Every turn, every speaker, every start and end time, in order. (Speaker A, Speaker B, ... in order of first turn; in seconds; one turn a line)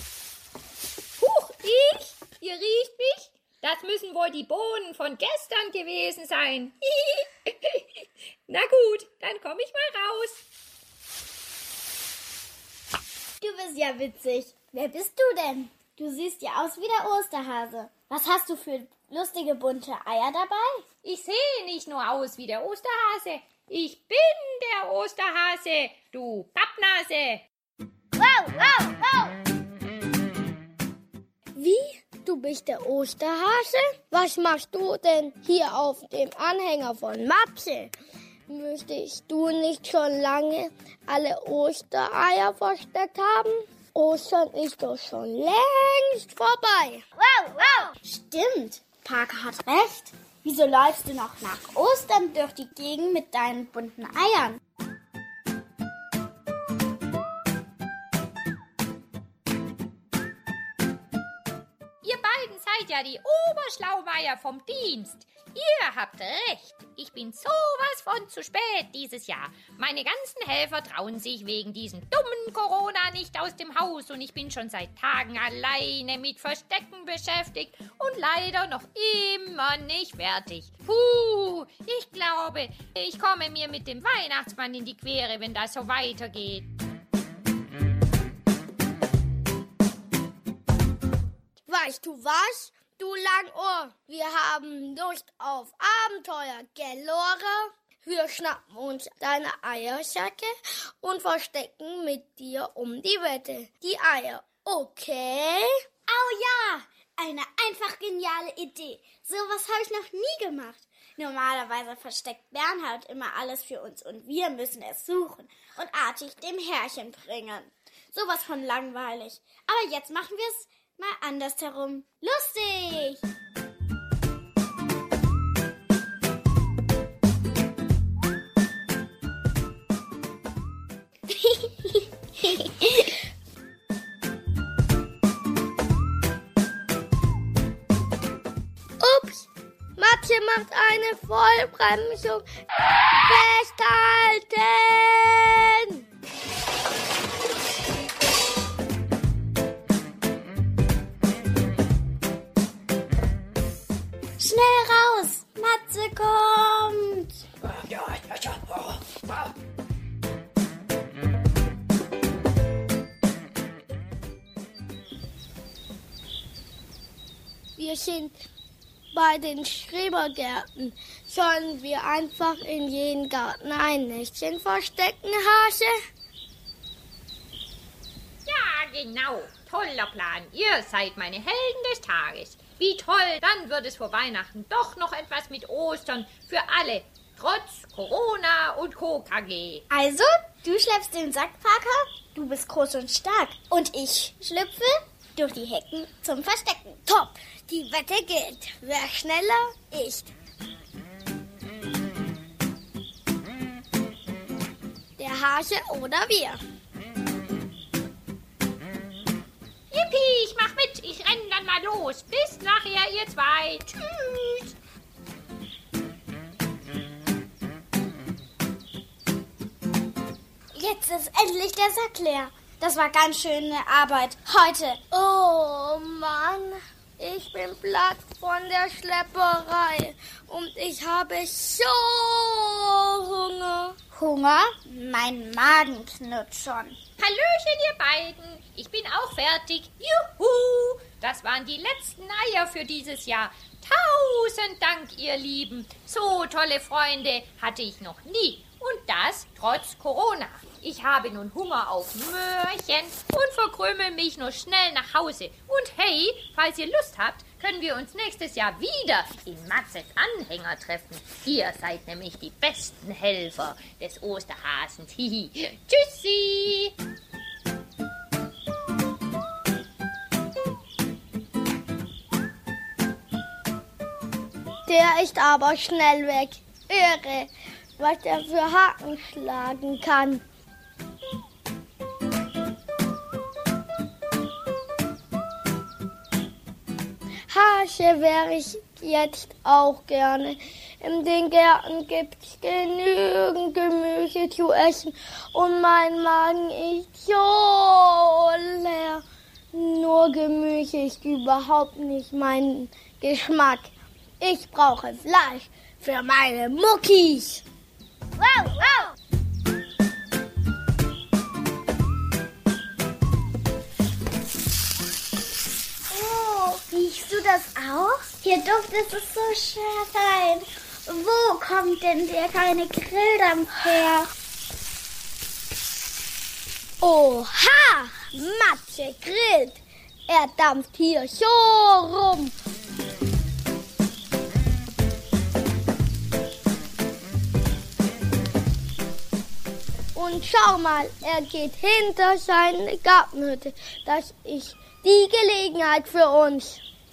Speaker A: 1.2-7.9
Speaker A: 8.5-10.4
Speaker B: 13.4-20.9
Speaker A: 21.0-27.4
Speaker B: 28.2-29.1
Speaker C: 31.6-37.9
Speaker C: 38.5-47.1
Speaker B: 47.2-54.6
Speaker A: 62.0-86.7
Speaker C: 91.7-105.7
Speaker B: 106.1-123.2
Speaker B: 131.4-133.1
Speaker C: 139.0-142.5
Speaker C: 143.2-146.0
Speaker B: 154.4-157.4
Speaker C: 167.8-168.3
Speaker C: 169.1-175.9
Speaker A: 178.5-189.8
Speaker B: 189.9-197.0
Speaker C: 197.1-200.3
Speaker C: 205.2-206.6
Speaker A: 209.9-213.9
Speaker B: 214.1-214.7
Speaker B: 220.8-225.0
Speaker C: 225.1-234.0
Speaker B: 234.1-237.0
Speaker A: 237.2-266.9
Speaker C: 274.9-280.4
Speaker C: 287.5-307.6
Speaker B: 308.4-309.1
Speaker B: 316.1-324.3
Speaker C: 327.0-332.5
Speaker C: 340.1-346.8